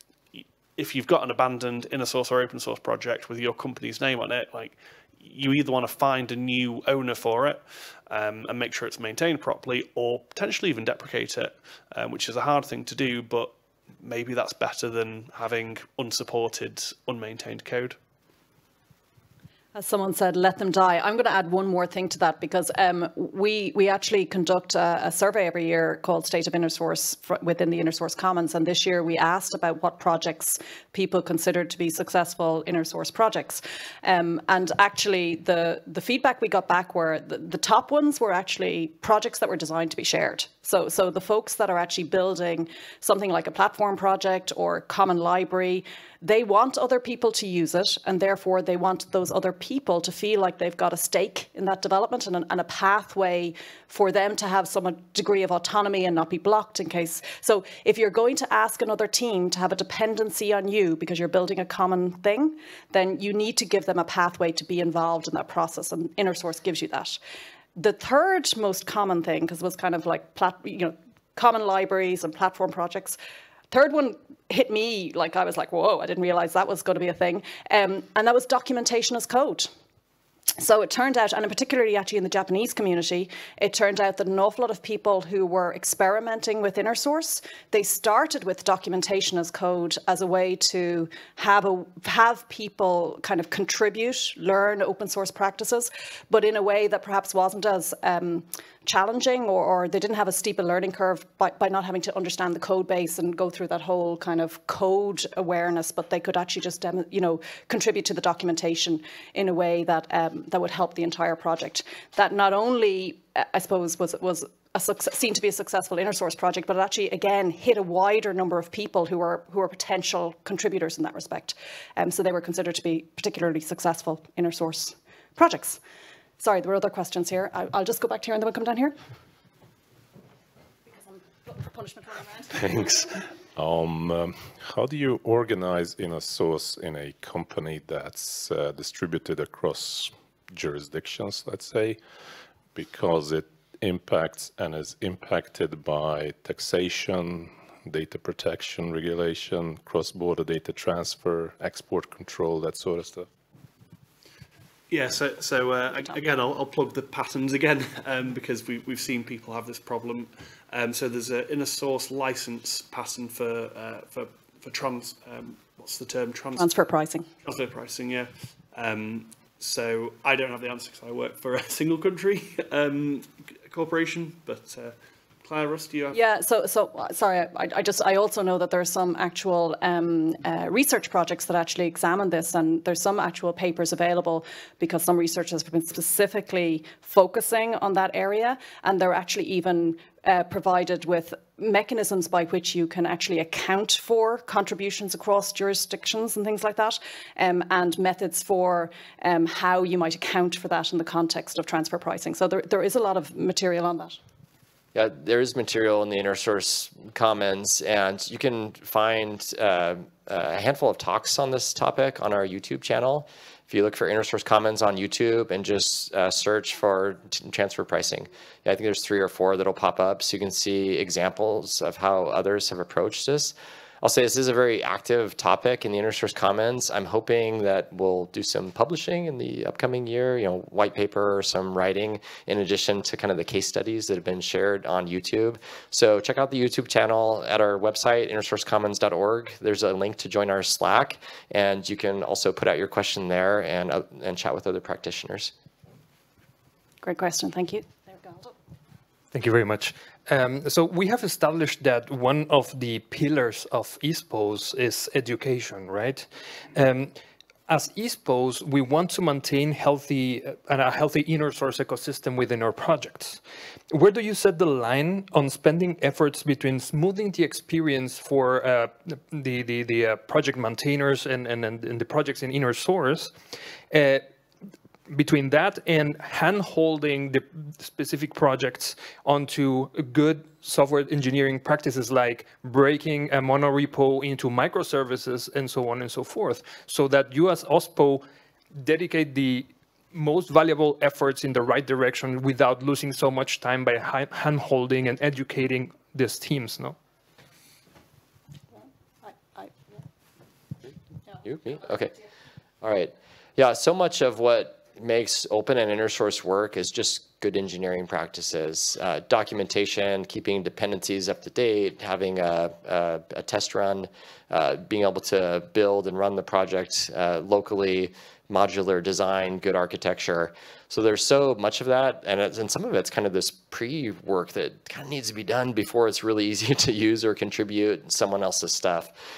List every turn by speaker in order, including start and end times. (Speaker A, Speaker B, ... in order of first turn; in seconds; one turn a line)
Speaker A: 0.3-17.9
Speaker B: 19.7-67.2
Speaker B: 67.8-73.2
Speaker B: 73.7-79.7
Speaker B: 80.6-125.8
Speaker B: 126.4-128.9
Speaker B: 130.9-133.2
Speaker C: 133.6-142.0
Speaker C: 142.7-153.3
Speaker A: 154.9-166.7
Speaker B: 166.6-167.3
Speaker A: 167.4-176.2
Speaker B: 176.1-204.2
Speaker D: 204.9-245.5
Speaker B: 247.0-248.5
Speaker E: 249.3-257.1
Speaker E: 257.7-273.3
Speaker E: 273.9-274.2
Speaker E: 275.1-288.2
Speaker E: 288.8-297.0
Speaker B: 298.7-300.0
Speaker D: 301.4-302.1
Speaker D: 302.8-329.1